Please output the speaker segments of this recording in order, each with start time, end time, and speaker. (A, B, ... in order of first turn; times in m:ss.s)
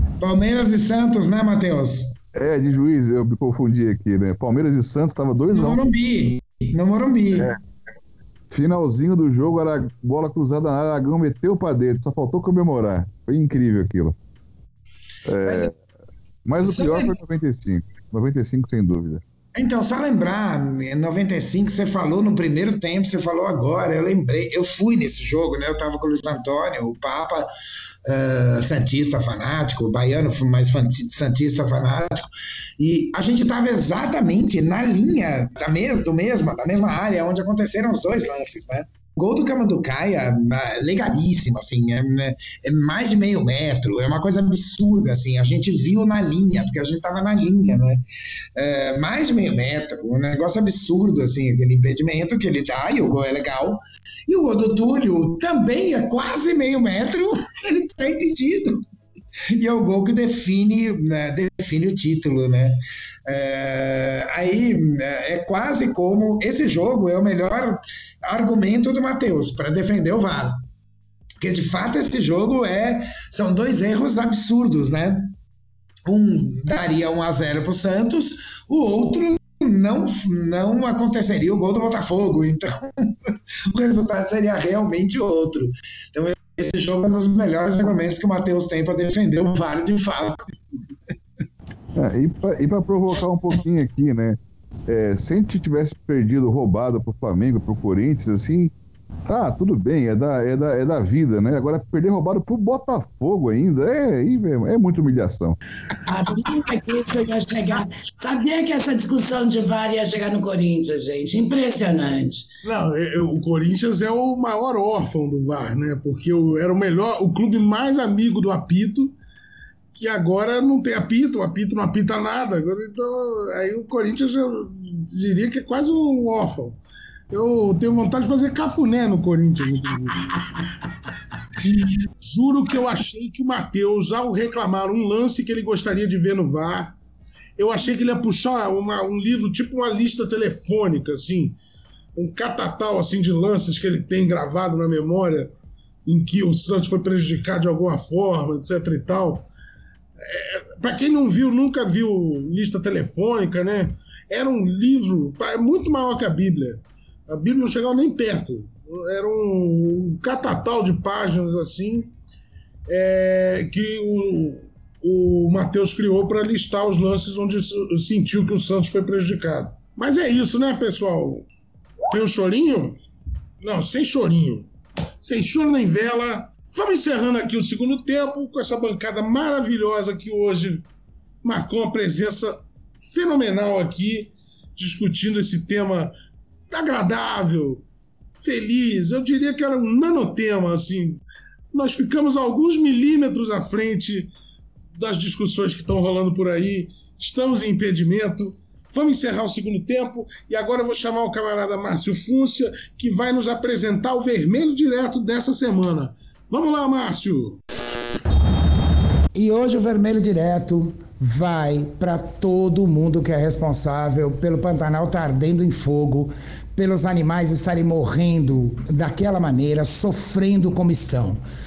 0:00.2-0:02.2 A
0:02.3-0:05.8 B
0:05.5-0:07.6 A
0:07.3-0:07.6 B
0:08.5-0:14.1 B
0:15.2-0:15.8 B
0:15.4-0:15.7 A
0:16.4-0:19.2 B
0:16.6-0:17.1 A
0:19.5-0:27.5 A
0:28.0-0:32.2 A
0:32.8-0:48.0 A
0:48.6-0:58.8 A
0:59.5-1:10.6 A
1:11.4-1:15.4 A
1:16.1-1:30.4 A
1:31.9-1:38.7 B
1:39.3-1:45.6 B
1:46.0-1:52.5 C
1:52.6-1:59.2 D
1:59.9-2:06.8 D
2:07.3-2:10.4 D
2:11.6-2:17.0 D
2:17.6-2:21.6 D
2:22.2-2:25.5 D
2:26.0-2:29.5 D
2:30.2-2:42.1 D
2:42.9-2:51.5 D
2:52.1-2:53.0 D
2:53.6-2:54.7 D
2:55.2-3:00.8 D
3:01.4-3:06.1 D
3:06.7-3:07.8 D
3:08.4-3:14.3 D
3:15.0-3:27.6 D
3:29.3-3:41.4 A